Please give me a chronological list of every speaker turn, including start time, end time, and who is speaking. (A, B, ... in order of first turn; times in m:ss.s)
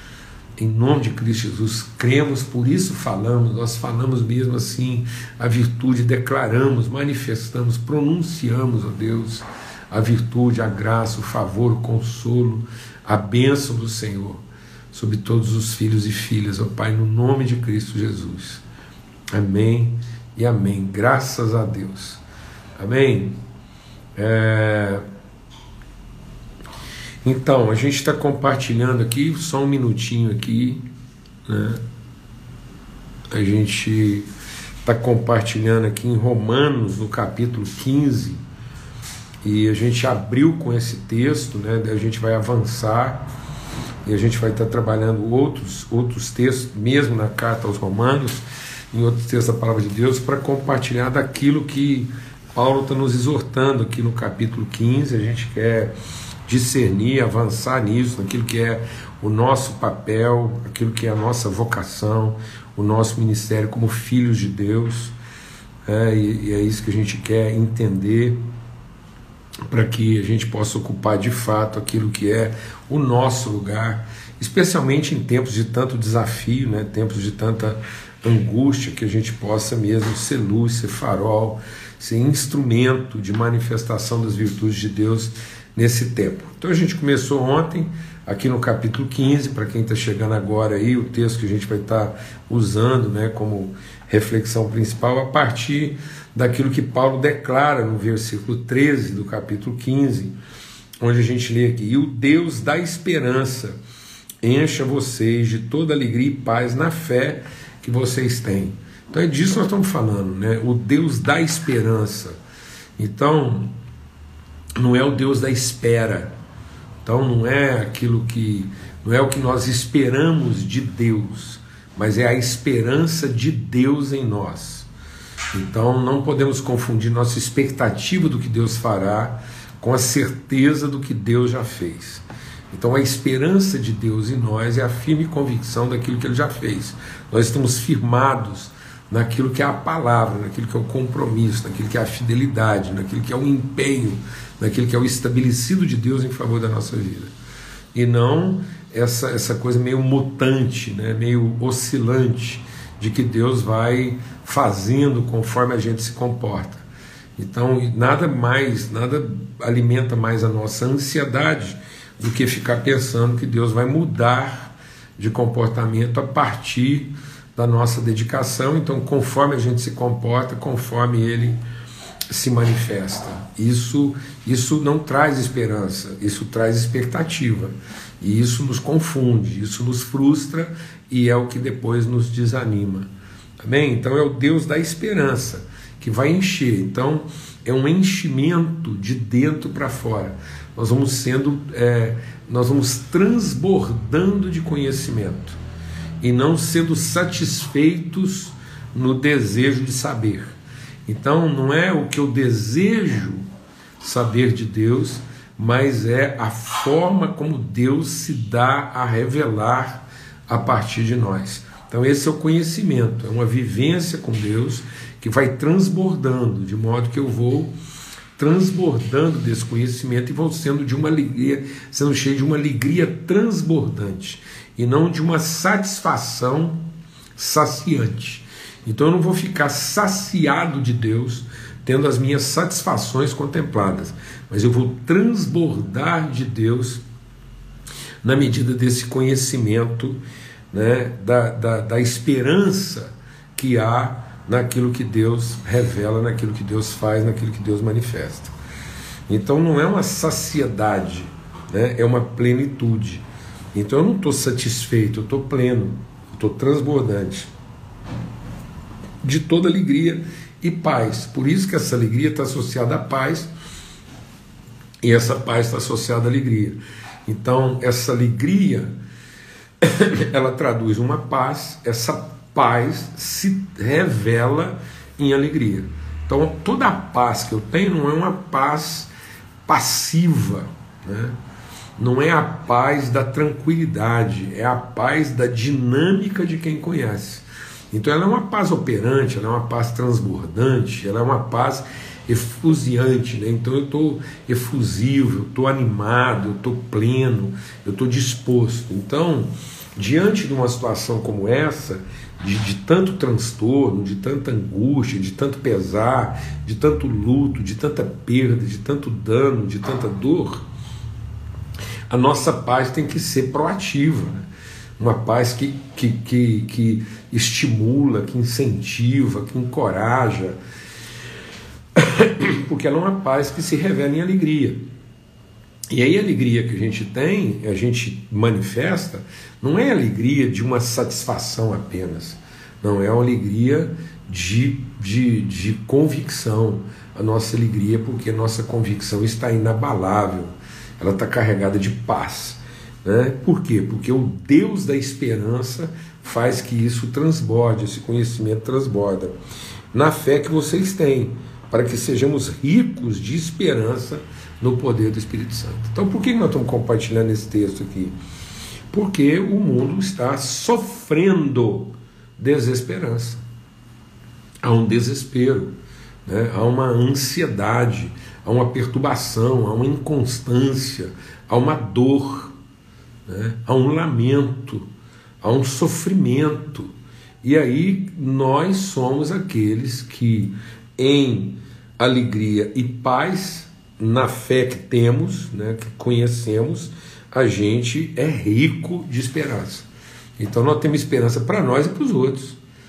0:00.6-0:18.6 A
0:19.3-0:22.2 A
0:22.8-0:23.4 A
0:24.2-0:25.0 A
0:27.2-0:30.8 A
0:31.4-0:31.8 A
0:33.3-0:34.3 A
0:34.8-0:38.4 A
0:39.4-0:43.3 A
0:44.0-0:55.9 A
0:56.5-1:05.1 A
1:05.8-1:08.4 A
1:09.7-1:40.3 A
1:41.0-1:43.8 A
1:44.4-1:52.4 A
1:53.0-1:53.7 A
1:54.8-1:56.3 A
1:57.0-2:04.9 A
2:05.5-2:27.3 A
2:27.9-2:36.8 A
2:37.4-2:51.6 A
2:52.3-3:03.1 A
3:03.6-3:15.6 A
3:16.2-3:20.5 A
3:21.0-3:23.4 A
3:24.0-3:37.7 A
3:38.4-3:46.8 A
3:47.4-3:57.0 A
3:58.2-4:00.2 A
4:00.7-4:08.5 A
4:09.3-4:17.5 A
4:19.2-4:23.5 A
4:25.0-4:28.9 A
4:29.8-4:39.1 A
4:39.6-4:41.4 A
4:42.0-5:10.6 A
5:12.1-5:14.4 A
5:15.0-5:20.6 A
5:22.0-5:24.8 A
5:25.9-5:49.3 A
5:49.9-5:58.2 A
5:58.9-6:03.4 A
6:04.6-6:05.7 A
6:06.2-6:12.5 A
6:13.3-6:14.9 A
6:15.4-6:29.9 A
6:30.4-6:32.6 A